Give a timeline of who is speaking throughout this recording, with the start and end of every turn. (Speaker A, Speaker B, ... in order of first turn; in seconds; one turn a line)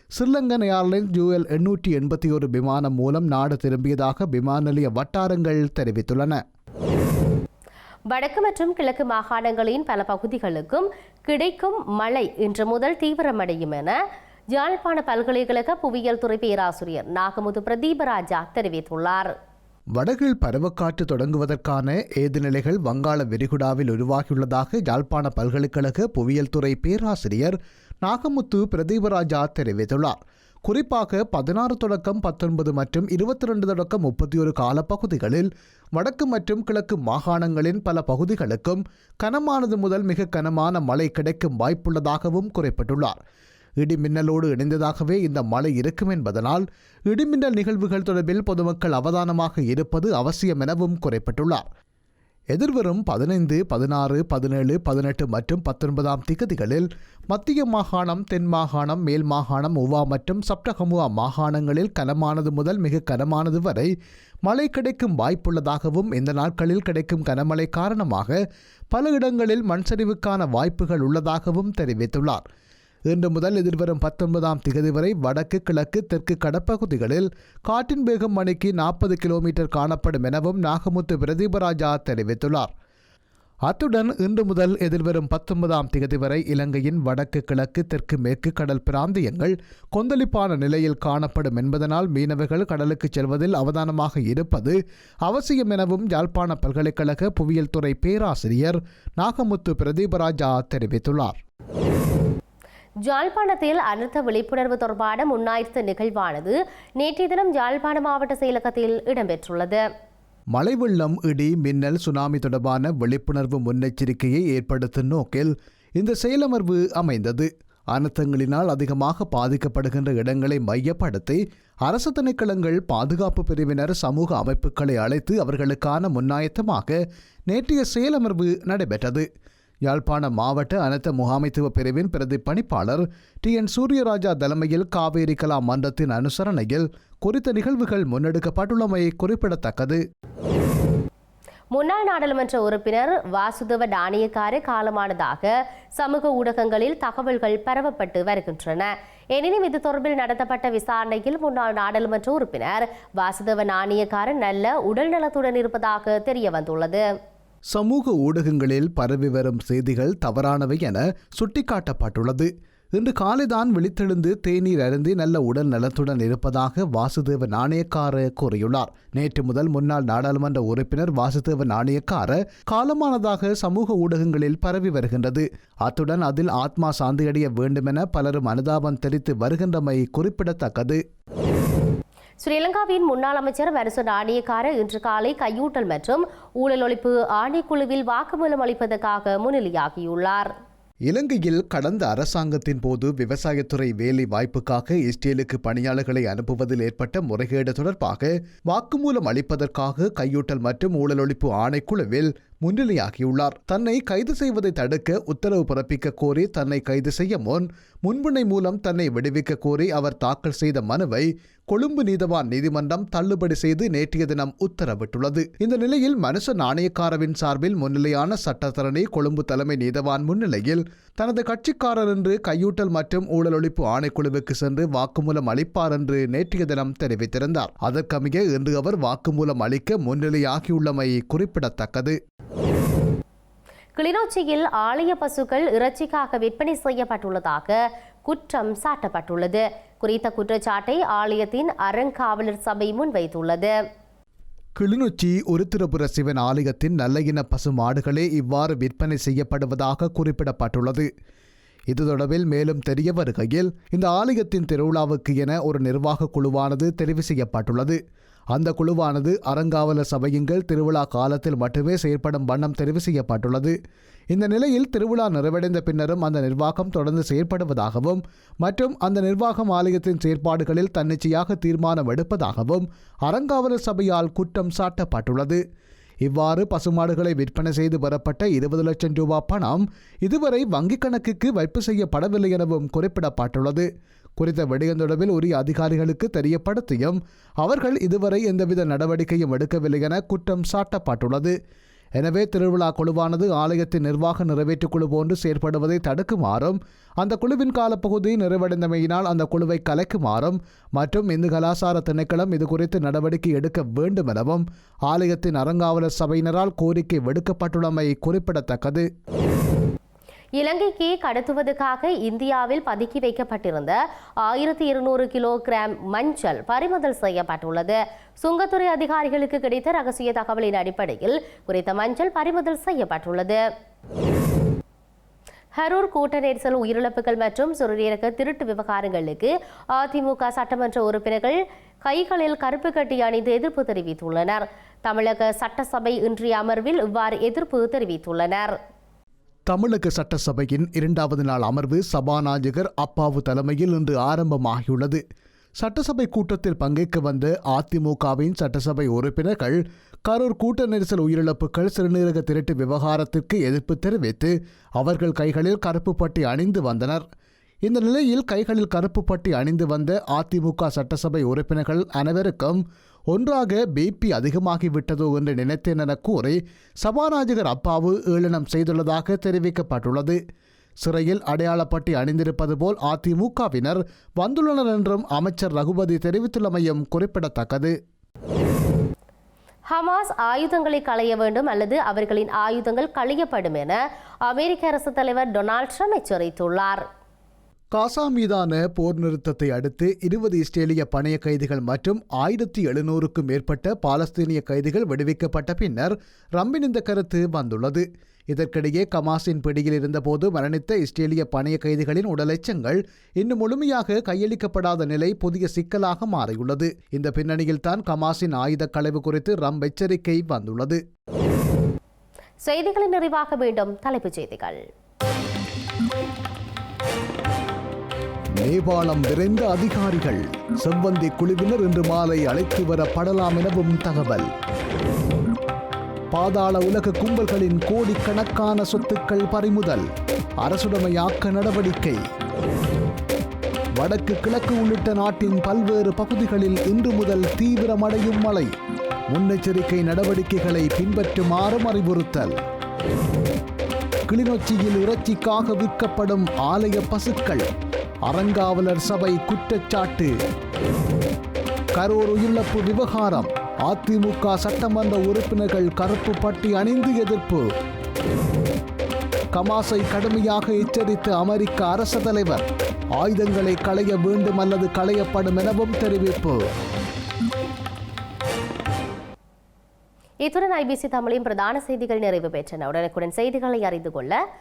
Speaker A: 0.2-6.4
Speaker B: 8.1-14.0
Speaker B: 14.5-19.3
Speaker A: 20.0-43.2
Speaker A: 43.8-51.7
Speaker A: 52.5-63.9
Speaker A: 64.5-68.4
Speaker A: 68.9-72.5
Speaker A: 73.1-82.7
Speaker A: 83.7-101.4
Speaker B: 103.0-109.8
Speaker A: 110.5-129.3
Speaker A: 129.9-140.0
Speaker B: 141.7-157.0
Speaker A: 157.7-181.0
Speaker B: 182.4-190.5
Speaker A: 191.1-232.2
Speaker B: 234.0-243.7
Speaker A: 244.8-251.1
Speaker A: 251.9-258.0
Speaker A: 258.5-263.8
Speaker A: 264.3-275.6
Speaker A: 276.2-291.5
Speaker A: 292.2-309.1
Speaker B: 310.6-323.6
Speaker B: 325.8-338.8
Speaker A: 339.7-345.2
Speaker A: 345.8-357.2
Speaker A: 357.9-370.4
Speaker A: 371.0-377.9
Speaker B: 379.9-387.1
Speaker A: 387.9-411.0
Speaker B: 412.6-414.8
Speaker A: 418.6-424.5
Speaker A: 426.3-430.1
Speaker A: 430.6-432.2
Speaker A: 434.0-438.7
Speaker A: 439.3-442.6
Speaker A: 444.3-447.6
Speaker A: 448.3-450.3
Speaker A: 452.0-457.7
Speaker A: 459.5-462.7
Speaker A: 463.2-466.6
Speaker B: 470.4-474.4